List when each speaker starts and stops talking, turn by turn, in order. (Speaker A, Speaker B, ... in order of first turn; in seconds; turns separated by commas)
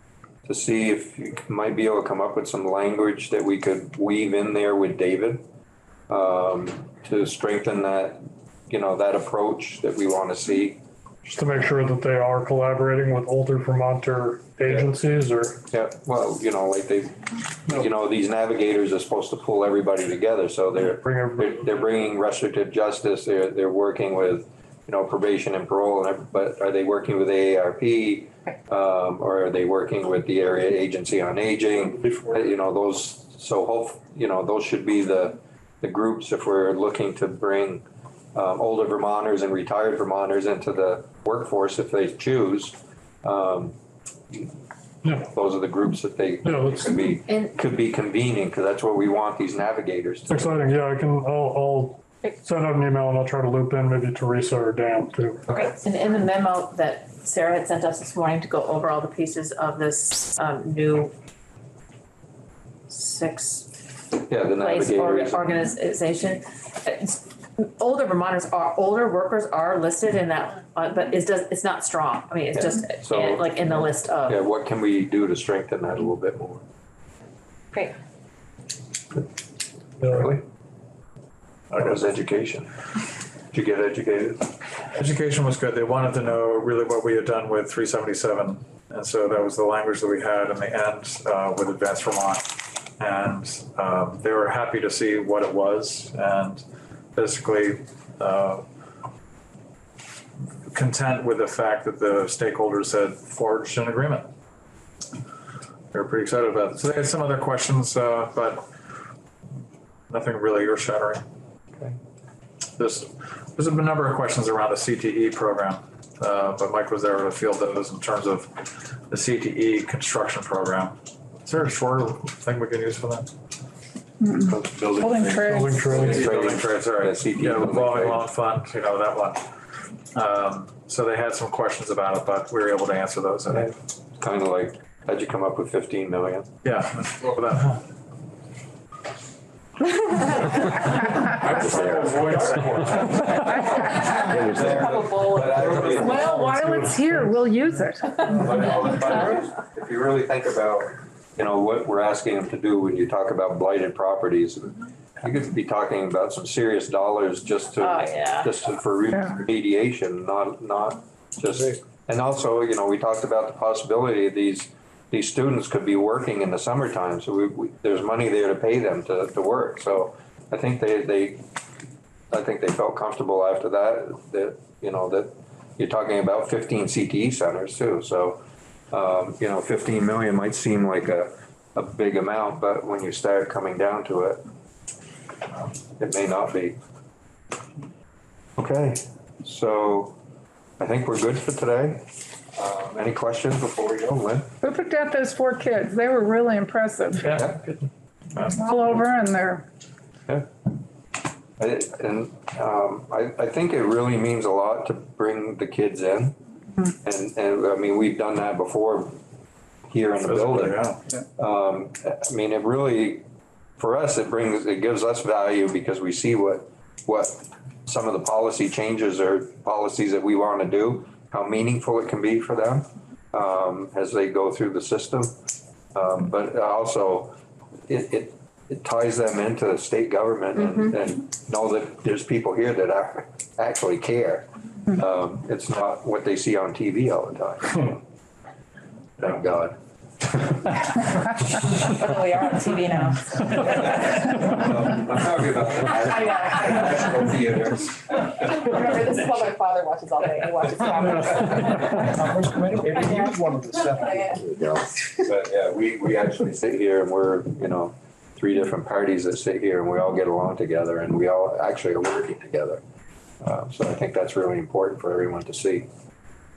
Speaker A: 0.5-5.4, Speaker A: 6.1-10.8, Speaker B: 11.2-15.6, Speaker A: 15.7-43.8, Speaker B: 20.9-21.8, Speaker B: 31.8-32.4, Speaker B: 45.0-45.3, Speaker A: 45.1-50.5, Speaker B: 46.4-47.1, Speaker C: 47.3-47.5, Speaker B: 50.3-55.4, Speaker C: 55.6-61.1, Speaker C: 62.9-63.7, Speaker A: 64.3-65.5, Speaker C: 64.6-74.4, Speaker A: 72.5-76.6, Speaker A: 80.0-80.5, Speaker A: 81.7-82.7, Speaker A: 83.5-84.5, Speaker D: 85.0-98.7, Speaker D: 100.7-104.3, Speaker D: 105.9-108.7, Speaker D: 110.1-111.2, Speaker D: 112.8-123.3, Speaker E: 124.2-125.8, Speaker A: 124.5-128.3, Speaker D: 125.0-129.4, Speaker B: 125.5-126.1, Speaker D: 130.1-133.7, Speaker A: 133.5-136.5, Speaker D: 136.6-137.8, Speaker D: 141.4-142.9, Speaker A: 141.5-146.5, Speaker E: 143.4-143.8, Speaker F: 144.9-145.4, Speaker E: 145.8-148.5, Speaker A: 148.3-171.4, Speaker C: 157.8-158.5, Speaker A: 172.3-184.4, Speaker A: 185.9-186.8, Speaker A: 188.6-190.2, Speaker A: 190.8-194.5, Speaker E: 194.6-197.5, Speaker A: 197.2-197.6, Speaker E: 198.4-199.7, Speaker D: 198.4-198.7, Speaker A: 201.6-206.4, Speaker A: 207.0-209.2, Speaker A: 209.9-213.2, Speaker D: 210.2-211.0, Speaker A: 213.8-225.3, Speaker A: 225.9-227.4, Speaker A: 227.9-238.0, Speaker A: 239.2-241.0, Speaker F: 241.9-243.9, Speaker A: 243.6-248.8, Speaker F: 246.0-246.9, Speaker F: 248.4-252.1, Speaker G: 252.2-254.4, Speaker F: 252.8-254.8, Speaker A: 255.2-262.8, Speaker A: 263.4-265.9